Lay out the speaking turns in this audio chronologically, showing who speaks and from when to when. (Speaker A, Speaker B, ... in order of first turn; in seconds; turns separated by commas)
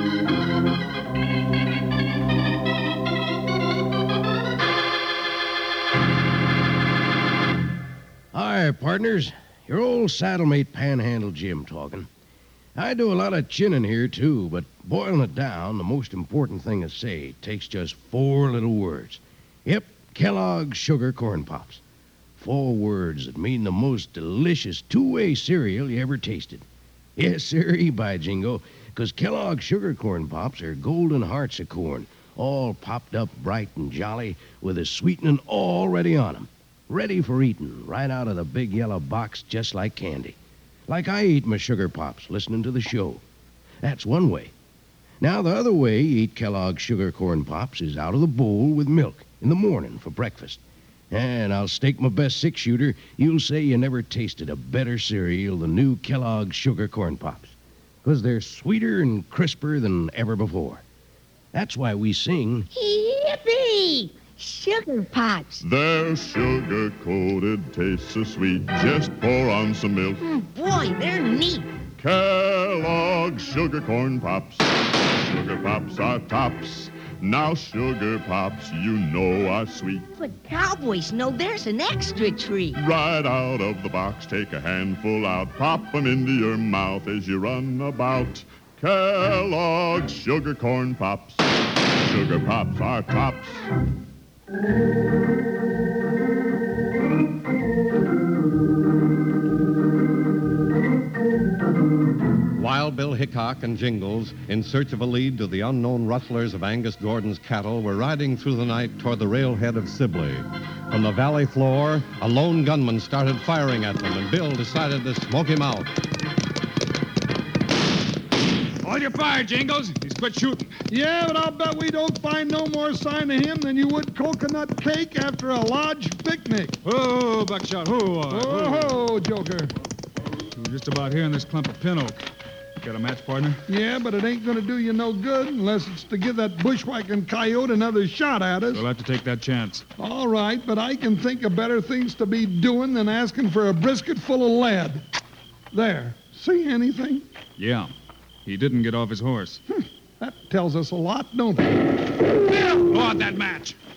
Speaker A: 8.3-12.1, Speaker A: 12.7-21.8, Speaker A: 22.4-26.6, Speaker A: 27.2-40.4, Speaker A: 40.9-43.2, Speaker A: 43.8-44.5, Speaker A: 45.2-50.6, Speaker A: 51.1-60.8, Speaker A: 61.5-62.7, Speaker B: 62.7-65.6, Speaker C: 65.6-70.2, Speaker B: 70.2-71.7, Speaker C: 72.0-74.6, Speaker C: 75.2-80.1, Speaker B: 80.2-82.8, Speaker C: 82.8-91.4, Speaker C: 92.0-93.6, Speaker D: 102.5-115.9, Speaker E: 118.8-120.7, Speaker F: 120.9-126.8, Speaker E: 126.8-129.0, Speaker F: 128.3-129.7, Speaker E: 130.5-132.2, Speaker E: 132.8-133.6, Speaker F: 133.7-138.8, Speaker E: 138.7-139.8, Speaker F: 140.0-145.0, Speaker F: 145.7-147.2, Speaker E: 147.6-147.9, Speaker E: 148.4-149.6, Speaker F: 150.2-151.8, Speaker E: 152.7-153.8